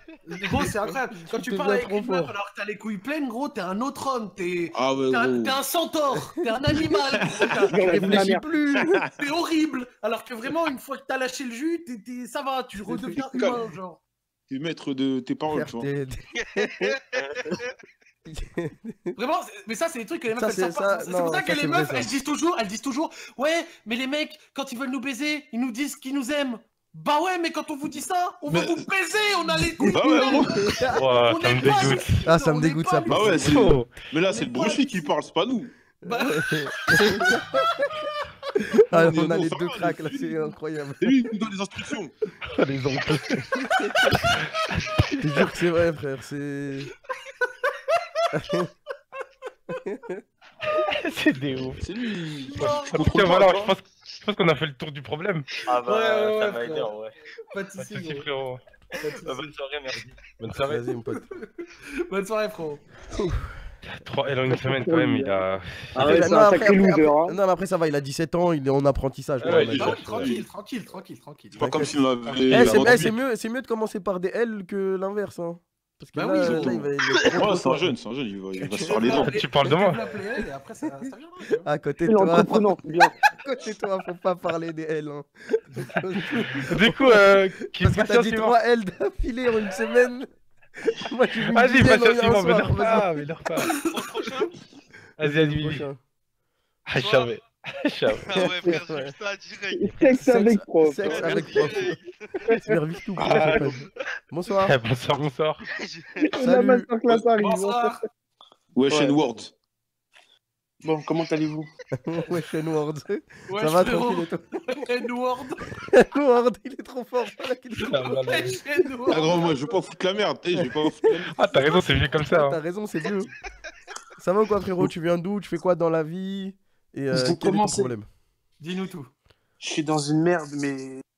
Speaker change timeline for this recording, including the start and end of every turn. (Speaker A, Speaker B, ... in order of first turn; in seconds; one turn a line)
Speaker A: 0.3-8.2
Speaker B: 0.5-2.3
Speaker C: 4.7-5.6
Speaker C: 7.1-7.6
Speaker D: 7.7-8.4
Speaker B: 7.8-9.0
Speaker C: 8.8-9.1
Speaker A: 9.2-14.0
Speaker C: 13.3-13.6
Speaker C: 14.5-15.9
Speaker B: 15.5-17.0
Speaker E: 16.3-17.8
Speaker B: 18.3-19.1
Speaker A: 19.1-35.1
Speaker B: 20.3-22.1
Speaker C: 28.5-28.8
Speaker C: 29.8-30.8
Speaker B: 30.4-31.0
Speaker F: 30.9-32.2
Speaker B: 32.2-33.7
Speaker C: 33.1-35.7
Speaker F: 33.5-34.1
Speaker B: 36.0-37.4
Speaker A: 36.0-37.4
Speaker B: 38.8-41.2
Speaker C: 38.9-40.5
Speaker C: 41.0-42.1
Speaker F: 42.5-43.5
Speaker B: 45.2-46.9
Speaker B: 48.3-48.7
Speaker B: 49.8-50.2
Speaker F: 50.7-51.8
Speaker C: 51.8-53.8
Speaker A: 52.4-53.2
Speaker F: 52.6-55.5
Speaker G: 55.6-57.1
Speaker A: 55.9-56.9
Speaker A: 57.5-58.3
Speaker F: 57.8-58.6
Speaker A: 59.0-59.5
Speaker G: 59.1-60.2
Speaker F: 60.4-60.8
Speaker B: 60.6-61.3
Speaker A: 62.1-62.8
Speaker B: 63.1-63.4
Speaker F: 63.9-66.2
Speaker D: 64.5-65.4
Speaker D: 66.0-67.3
Speaker B: 66.0-70.3
Speaker A: 69.4-71.7
Speaker C: 69.5-70.5
Speaker C: 71.5-73.1
Speaker B: 71.6-71.9
Speaker F: 72.5-73.1
Speaker B: 72.5-78.0
Speaker A: 76.1-76.9
Speaker C: 76.4-79.4
Speaker B: 78.6-79.0
Speaker A: 78.8-81.7
Speaker F: 79.2-80.0
Speaker B: 81.6-82.7
Speaker D: 82.0-83.1
Speaker B: 83.4-90.3
Speaker F: 86.6-88.6
Speaker B: 90.9-93.2
Speaker F: 91.5-93.8
Speaker E: 93.8-94.6
Speaker F: 95.2-95.8
Speaker B: 95.2-96.0
Speaker F: 96.9-98.6
Speaker E: 96.9-97.4
Speaker E: 98.1-100.2
Speaker B: 98.3-99.1
Speaker D: 99.7-101.8
Speaker B: 100.1-102.0
Speaker E: 101.0-102.6
Speaker B: 102.6-104.8
Speaker C: 103.2-103.6
Speaker H: 103.3-103.6
Speaker F: 104.6-105.6
Speaker E: 105.6-106.3
Speaker D: 106.3-107.9
Speaker B: 106.4-106.9
Speaker A: 107.4-108.0
Speaker C: 108.7-109.5
Speaker H: 108.9-109.2
Speaker H: 110.8-111.7
Speaker B: 111.9-114.4
Speaker A: 113.5-115.7
Speaker B: 115.9-118.1
Speaker F: 117.8-118.6
Speaker A: 117.8-119.7
Speaker C: 119.1-121.8
Speaker B: 120.5-121.2
Speaker F: 121.3-122.6
Speaker B: 122.3-123.3
Speaker B: 124.2-128.1
Speaker H: 127.1-127.9
Speaker A: 128.6-129.1
Speaker H: 129.6-131.0